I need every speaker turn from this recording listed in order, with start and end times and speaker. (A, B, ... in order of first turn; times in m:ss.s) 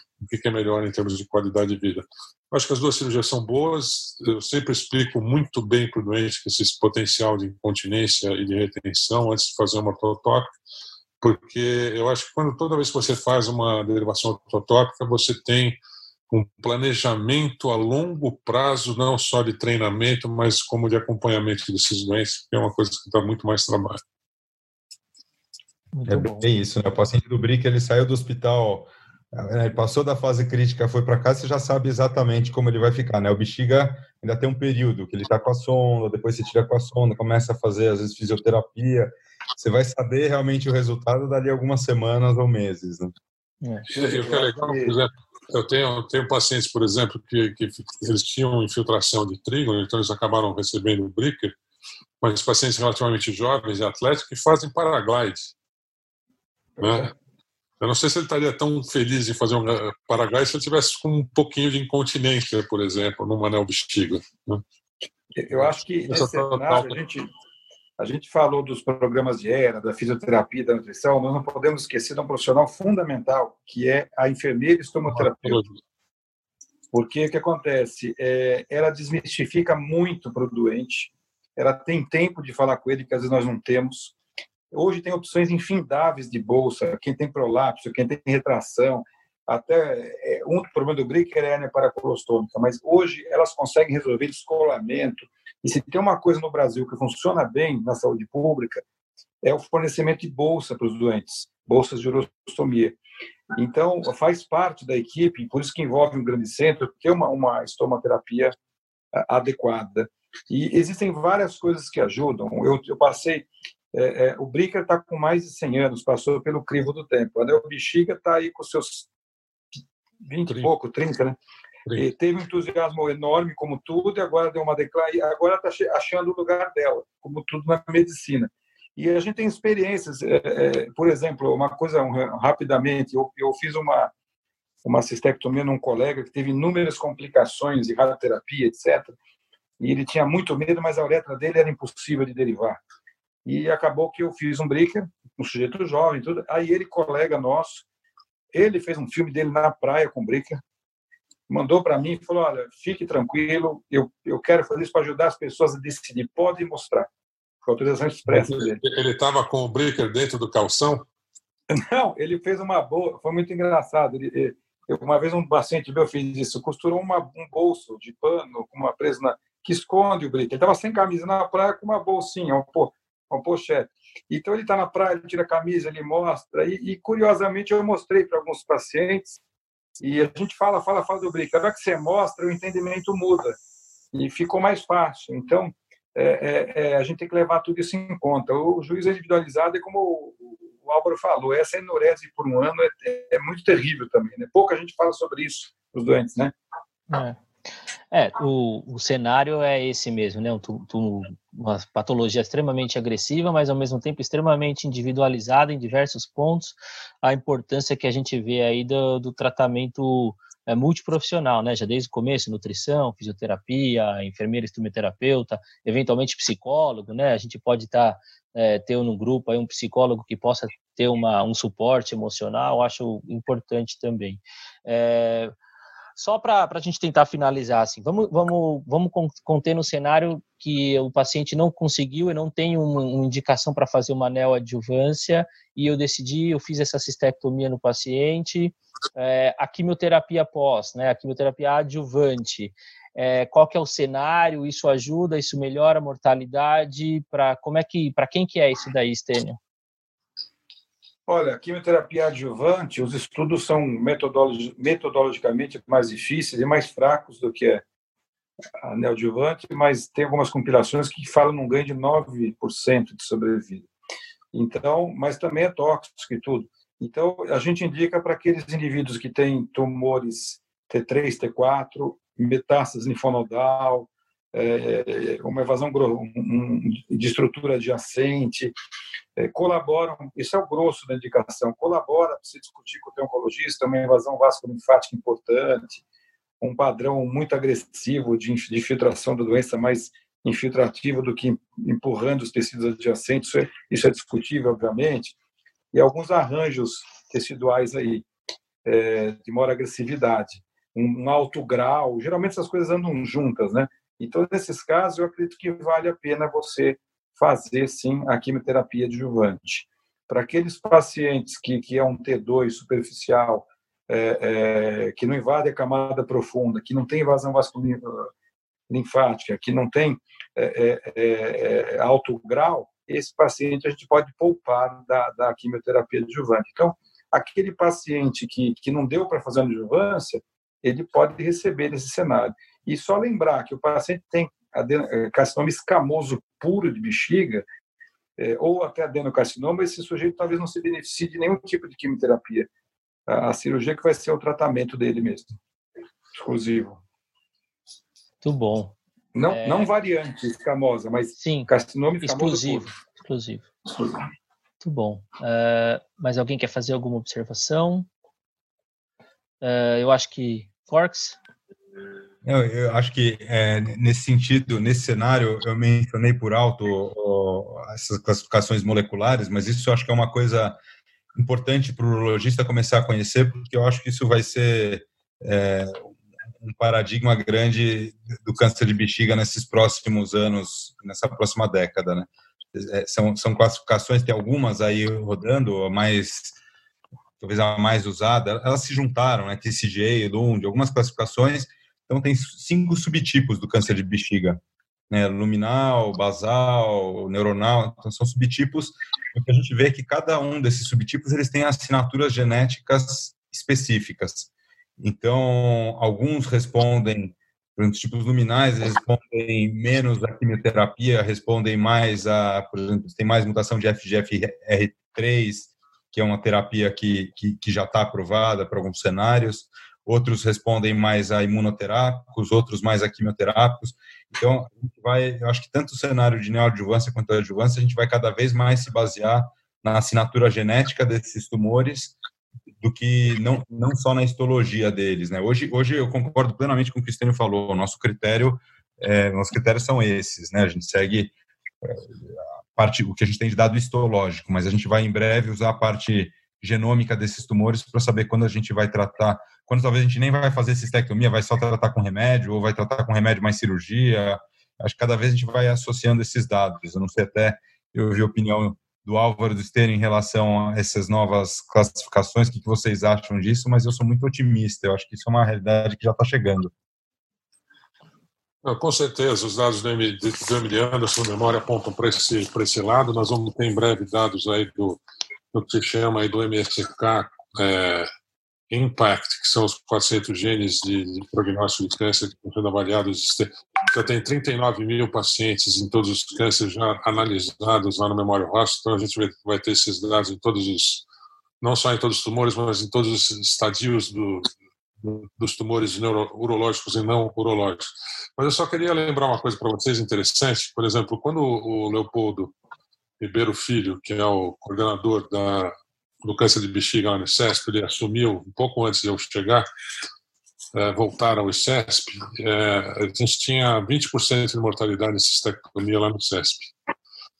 0:00.2-0:10.5 A
0:11.2-0:15.8 A
0:16.3-0:24.0 A
0:25.9-0:26.4 B
0:26.1-0:43.1 C
0:43.9-0:51.5 A
0:44.1-0:45.0 D
0:52.2-0:55.5 A
0:56.8-0:57.1 D
0:56.8-0:57.1 A
0:57.8-1:04.6 A
1:05.4-1:07.3 D
1:05.5-1:07.0 A
1:08.0-1:15.6 D
1:15.0-1:15.8 A
1:16.9-1:24.1 D
1:24.7-1:38.8 D
1:39.4-1:43.0 D
1:43.5-1:48.5 D
1:49.1-1:59.1 D
2:00.2-2:01.4 D
2:01.9-2:14.1 D
2:14.8-2:19.1 D
2:19.8-2:22.8 D
2:23.4-2:27.8 D
2:28.5-2:30.6 D
2:31.5-2:37.1 D
2:37.6-2:38.8 D
2:38.3-2:41.0 A
2:41.7-2:59.4 D
3:00.0-3:03.6 D
3:04.1-3:16.5 D
3:17.1-3:17.4 B
3:18.1-3:45.5 B
3:46.2-4:09.6 B
4:11.3-4:17.8 D
4:18.8-4:23.9 D
4:24.5-4:38.7 D
4:39.4-4:46.0 D
4:46.6-4:55.3 D
4:55.9-4:58.2 D
4:58.8-5:18.3 D
5:18.9-5:37.6 D
5:38.4-5:42.7 D
5:43.3-5:45.6 D
5:46.3-5:47.0 D
5:48.4-5:48.9 B
5:49.3-5:52.9 D
5:49.4-5:49.9 B
5:51.4-5:51.7 B
5:52.2-5:53.7 B
5:53.9-5:54.2 D
5:54.8-5:58.1 B
5:59.6-6:01.4 B
6:02.4-6:10.8 C
6:11.3-6:26.6 C
6:27.4-6:44.5 C
6:45.0-7:12.1 C
7:12.8-7:21.3 C
7:21.8-7:46.7 C
7:48.6-7:55.0 A
7:55.5-7:58.1 A
7:58.7-8:11.0 A
8:11.6-8:14.5 A
8:15.0-8:22.5 A
8:23.2-8:29.6 A
8:30.7-8:36.7 A